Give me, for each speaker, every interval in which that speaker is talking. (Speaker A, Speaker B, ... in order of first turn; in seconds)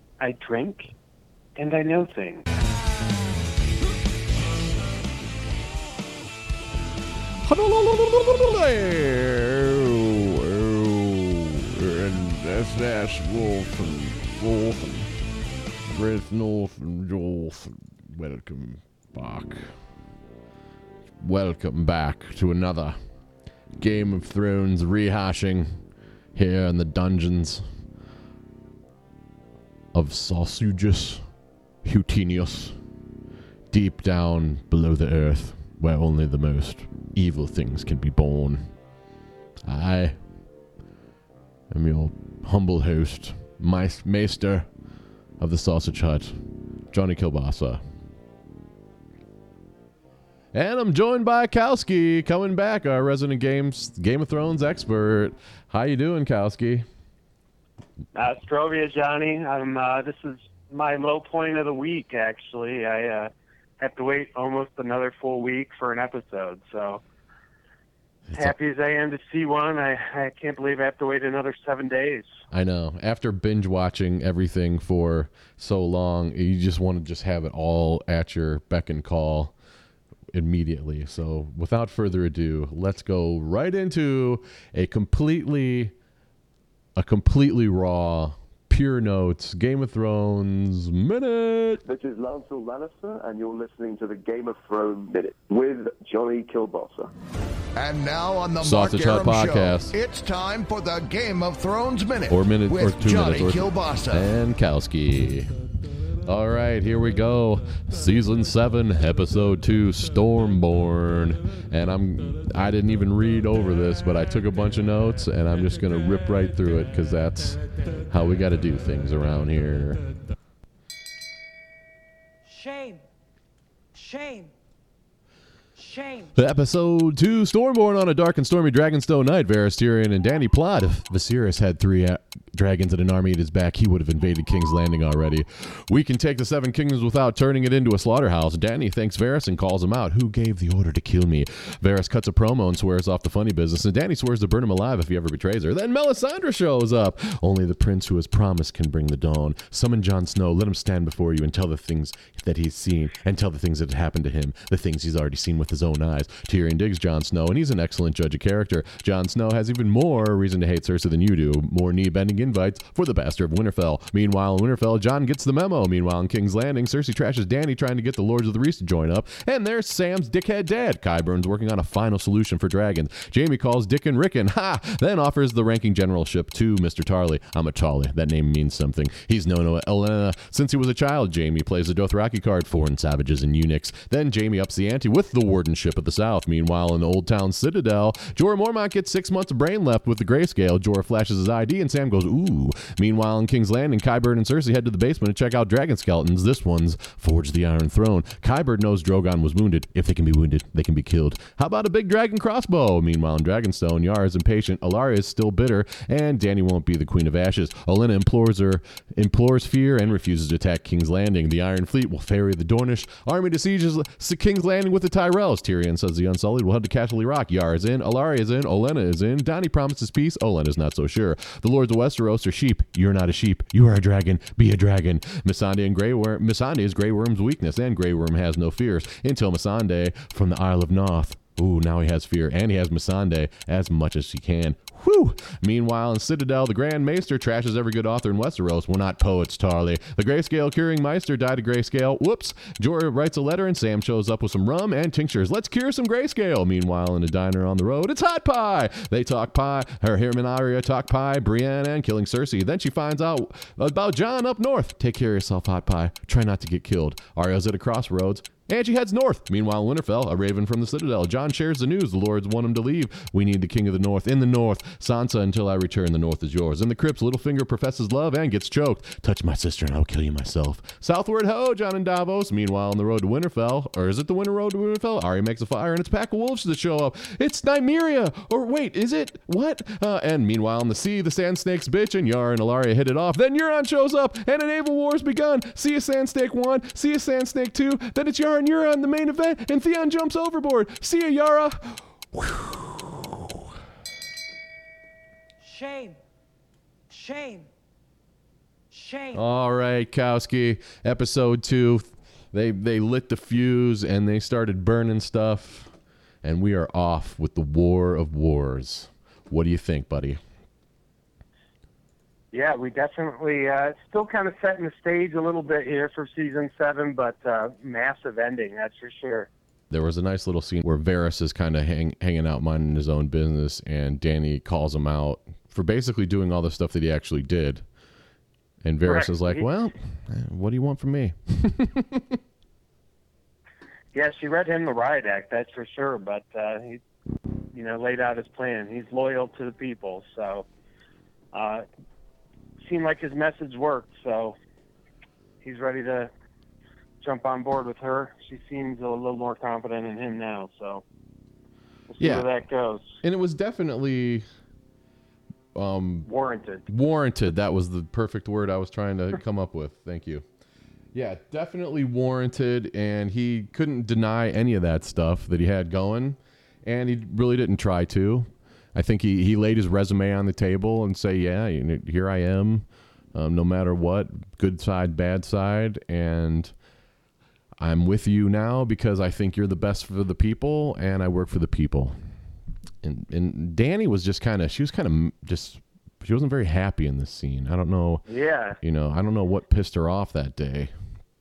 Speaker A: 0.2-0.9, 1.6-2.4, 58.1-67.0, 68.3-72.3, 312.5-319.5, 329.0-329.7, 334.1-337.0, 337.7-340.7, 341.5-341.9, 342.8-344.6, 345.6-346.3, 347.2-351.0, 352.1-353.2, 356.2-356.9, 388.3-388.8
Speaker B: 7.4-15.2, 15.9-19.9, 21.2-23.0, 23.8-25.8, 26.4-27.6, 29.9-32.8, 33.7-38.8, 39.6-40.2, 41.7-44.7, 45.4-47.8, 50.5-56.9, 68.3-68.6, 72.5-79.5, 80.3-85.9, 87.0-91.8, 98.6-100.0, 102.3-105.5, 106.2-120.1, 126.3-293.7, 299.3-310.4, 319.9-327.9, 328.8-332.4, 352.2-352.5, 353.2-354.4, 355.8-356.3, 356.9-360.4, 361.1-376.8, 377.8-382.2, 383.0-388.2, 388.8-390.9
Speaker C: 91.8-97.1
Speaker D: 97.8-104.3
Speaker E: 122.5-123.0, 123.9-124.5, 125.8-126.3, 295.6-296.2, 297.1-297.7, 298.9-299.4